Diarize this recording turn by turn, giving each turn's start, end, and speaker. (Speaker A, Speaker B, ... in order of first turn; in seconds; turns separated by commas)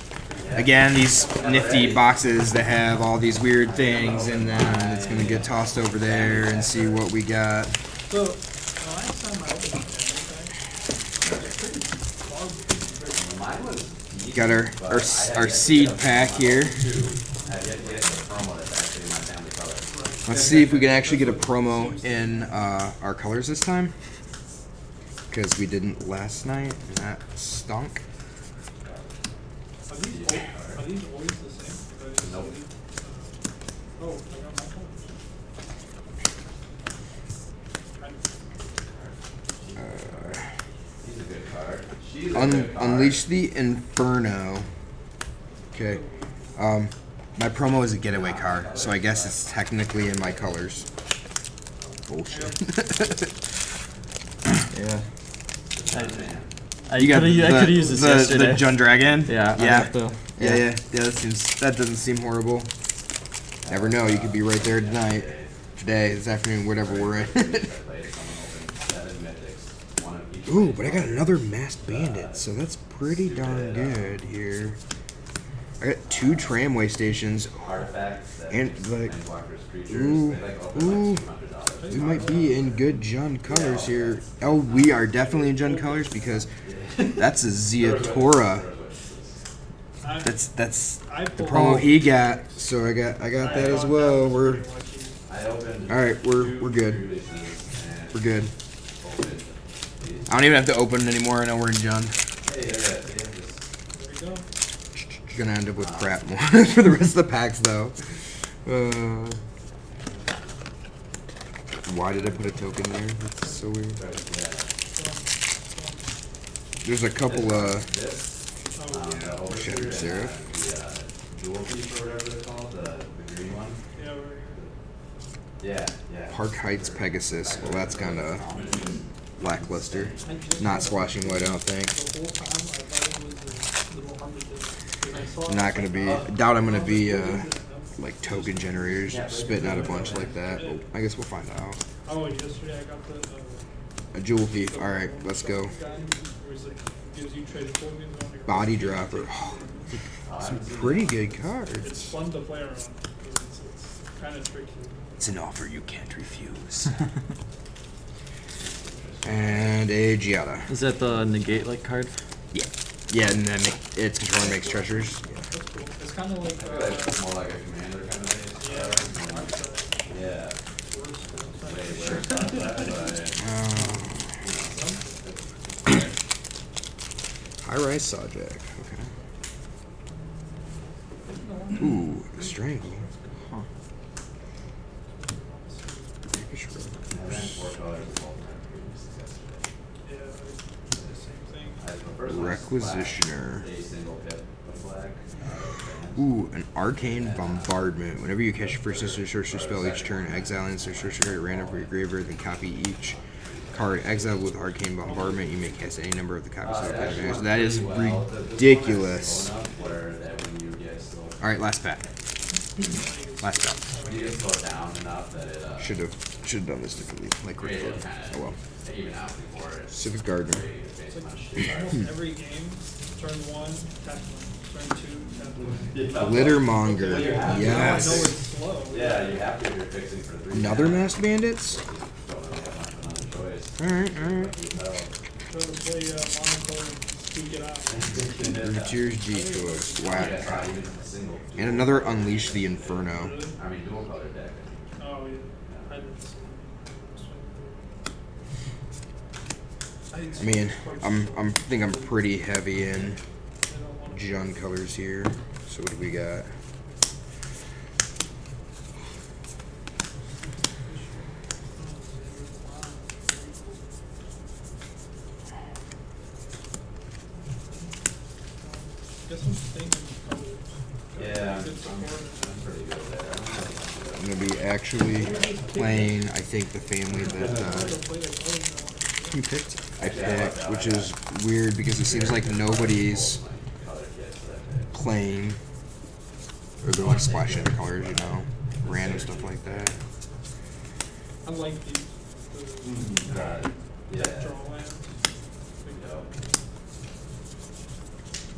Speaker A: 0.2-2.1, Speaker B: 0.3-0.7, Speaker C: 0.5-7.8, Speaker B: 1.2-2.1, Speaker B: 3.6-7.0, Speaker A: 8.0-10.6, Speaker A: 11.1-13.6, Speaker B: 13.1-20.6, Speaker C: 14.3-16.9, Speaker A: 17.4-18.3, Speaker A: 19.9-22.7, Speaker C: 20.2-23.9, Speaker C: 25.3-28.0, Speaker A: 29.9-33.4, Speaker B: 30.0-30.8, Speaker B: 32.2-32.5, Speaker A: 34.0-35.2, Speaker A: 38.0-38.3, Speaker B: 38.6-40.4, Speaker C: 39.7-40.5, Speaker B: 41.0-43.2, Speaker C: 42.3-44.7, Speaker C: 45.7-50.9, Speaker A: 45.7-46.6, Speaker B: 48.1-50.5, Speaker A: 51.8-52.8, Speaker C: 52.0-53.6, Speaker D: 54.7-55.1, Speaker B: 55.7-56.5, Speaker D: 55.9-56.2, Speaker D: 56.9-60.6, Speaker C: 57.0-62.7, Speaker A: 57.0-58.3, Speaker B: 63.6-65.5, Speaker C: 63.7-67.7, Speaker B: 66.7-72.5, Speaker C: 70.5-74.8, Speaker B: 73.2-74.2, Speaker C: 75.8-77.8, Speaker B: 76.0-76.6, Speaker B: 77.5-82.8, Speaker C: 78.5-79.1, Speaker C: 79.9-81.2, Speaker A: 81.8-82.6, Speaker C: 81.9-86.5, Speaker B: 83.4-85.0, Speaker A: 85.1-86.5, Speaker B: 86.6-89.4, Speaker C: 87.2-88.7, Speaker A: 90.0-92.4, Speaker C: 90.2-94.6, Speaker A: 93.3-95.2, Speaker B: 95.2-98.3, Speaker C: 95.9-97.0, Speaker C: 98.1-98.5, Speaker B: 99.0-100.3, Speaker C: 100.3-102.2, Speaker B: 102.4-103.6, Speaker A: 103.9-104.5, Speaker C: 105.1-109.4, Speaker B: 105.8-106.2, Speaker C: 111.8-114.0, Speaker A: 113.4-113.7, Speaker B: 113.9-114.7, Speaker A: 114.9-116.1, Speaker C: 116.8-117.9, Speaker B: 117.2-123.8, Speaker A: 118.7-119.4, Speaker C: 119.5-120.3, Speaker A: 123.9-124.7, Speaker B: 125.6-131.6, Speaker C: 126.3-128.5, Speaker C: 129.4-131.9, Speaker A: 130.2-140.8, Speaker C: 135.4-141.8, Speaker B: 136.0-136.3, Speaker B: 139.1-140.3, Speaker D: 139.2-140.1, Speaker A: 142.0-143.7, Speaker C: 144.1-145.7, Speaker A: 144.6-150.0, Speaker C: 148.4-149.7, Speaker B: 150.2-151.4, Speaker C: 150.4-152.0, Speaker A: 151.8-155.3, Speaker C: 155.2-157.0, Speaker B: 158.5-159.8, Speaker C: 159.2-160.7, Speaker D: 160.7-162.1, Speaker C: 162.5-165.5, Speaker B: 164.6-164.8, Speaker A: 165.5-167.2, Speaker B: 166.6-170.6, Speaker A: 168.6-173.1, Speaker B: 171.2-176.1, Speaker C: 173.4-174.3, Speaker A: 174.7-175.3, Speaker C: 177.6-179.1, Speaker A: 181.2-183.3, Speaker C: 181.8-183.1, Speaker A: 185.1-186.2, Speaker C: 186.3-187.6, Speaker B: 187.1-189.7, Speaker A: 190.0-191.8, Speaker B: 191.8-196.3, Speaker C: 192.2-193.6, Speaker C: 196.1-203.2, Speaker B: 197.0-197.9, Speaker B: 198.5-205.2, Speaker C: 203.7-209.5, Speaker A: 205.0-206.0, Speaker B: 206.6-211.6, Speaker C: 211.4-212.1, Speaker B: 212.8-213.1, Speaker A: 212.8-214.5, Speaker C: 213.4-213.8, Speaker B: 213.9-216.0, Speaker C: 215.8-218.6, Speaker B: 217.6-222.0, Speaker C: 219.9-220.7, Speaker A: 221.1-229.4, Speaker B: 225.8-228.3, Speaker C: 226.1-228.3, Speaker B: 228.9-235.1, Speaker C: 230.5-231.8, Speaker C: 233.8-234.6, Speaker A: 235.4-238.5, Speaker B: 238.0-239.0, Speaker C: 238.5-240.7, Speaker A: 239.2-240.6, Speaker B: 240.1-245.0, Speaker C: 241.5-243.4, Speaker A: 243.1-243.6, Speaker A: 245.0-247.9, Speaker B: 245.6-246.0, Speaker A: 250.1-252.2, Speaker C: 250.4-253.2, Speaker A: 253.6-254.6, Speaker C: 254.1-256.5, Speaker A: 260.8-263.9, Speaker A: 268.6-272.6, Speaker B: 271.1-274.7, Speaker C: 274.1-277.9, Speaker A: 275.0-279.4, Speaker B: 277.1-277.9, Speaker C: 279.3-283.4, Speaker B: 280.0-281.1, Speaker B: 281.9-284.9, Speaker C: 284.9-285.6, Speaker C: 286.8-290.0, Speaker B: 286.9-289.9, Speaker A: 291.4-295.2, Speaker B: 292.8-294.5, Speaker A: 295.8-296.6, Speaker B: 295.9-296.3